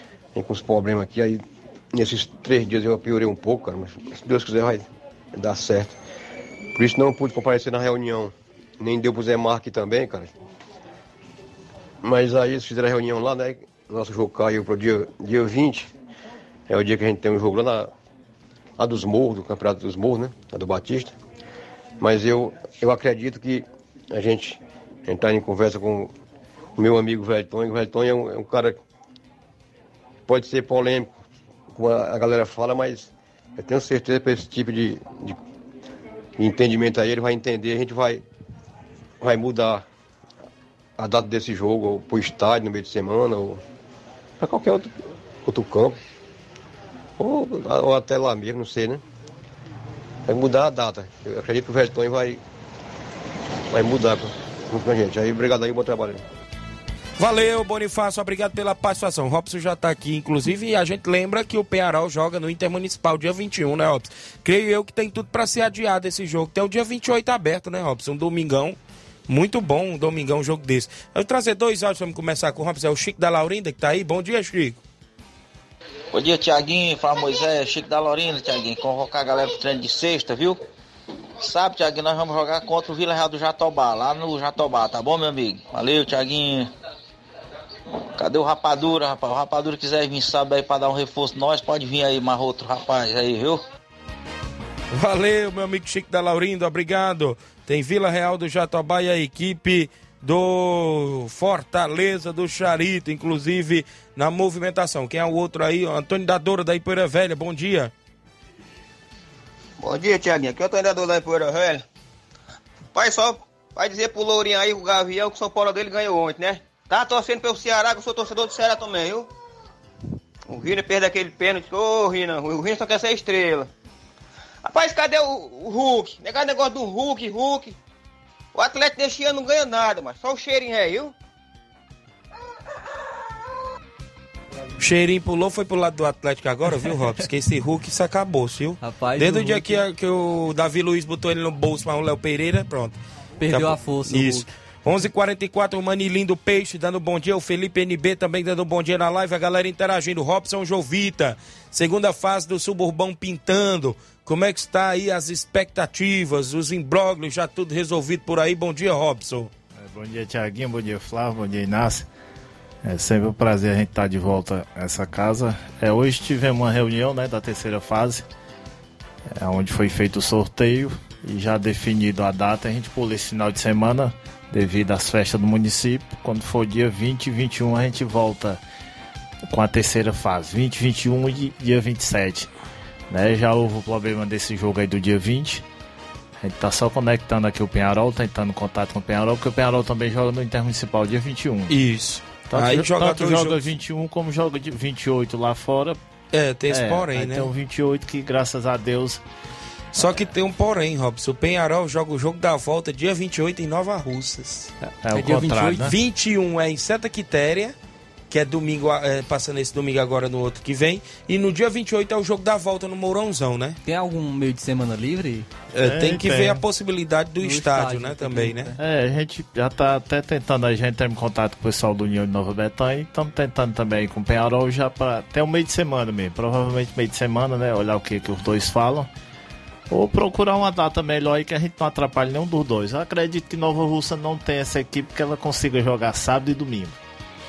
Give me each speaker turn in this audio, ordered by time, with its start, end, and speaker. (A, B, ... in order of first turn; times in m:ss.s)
0:00.4-0:06.0 A
0:06.8-0:10.3 A
0:12.0-0:15.9 A
0:16.7-0:17.9 A
0:18.8-0:21.1 A
0:22.0-0:26.1 A
0:26.8-0:28.8 A
0:30.3-0:31.1 A
0:31.7-0:35.4 A
0:36.4-0:38.2 A
0:39.2-0:39.8 A
0:41.0-0:43.6 A
0:44.4-0:44.9 A
0:45.4-0:46.0 A
0:47.2-0:49.0 A
0:50.3-0:52.4 A
0:53.7-0:56.2 A
0:57.2-1:14.8 B
1:16.1-1:20.6 C
1:21.4-1:26.7 C
1:28.2-1:33.6 C
1:34.9-1:47.9 B
1:49.8-1:51.8 D
1:53.0-1:59.3 D
2:00.5-2:03.7 D
2:04.6-2:07.8 D
2:08.6-2:11.1 D
2:14.8-2:23.0 B
2:18.8-2:19.8 E
2:23.4-2:24.5 E
2:23.5-2:39.5 B
2:39.8-2:42.1 F
2:42.8-2:48.2 F
2:49.4-2:58.6 F
2:59.5-3:02.5 F
3:03.1-3:05.6 F
3:06.4-3:11.7 F
3:11.7-3:13.6 B
3:12.5-3:16.0 F
3:16.3-3:17.5 B
3:16.7-3:19.2 F
3:19.9-3:24.7 B
3:20.0-3:20.2 F
3:25.0-3:26.0 F
3:25.1-3:25.9 E
3:25.8-3:27.8 B
3:28.3-3:33.8 B
3:33.8-3:35.5 E
3:35.7-3:38.7 B
3:35.8-3:36.6 F
3:37.4-3:38.8 E
3:38.8-3:49.1 F
3:49.9-3:57.0 F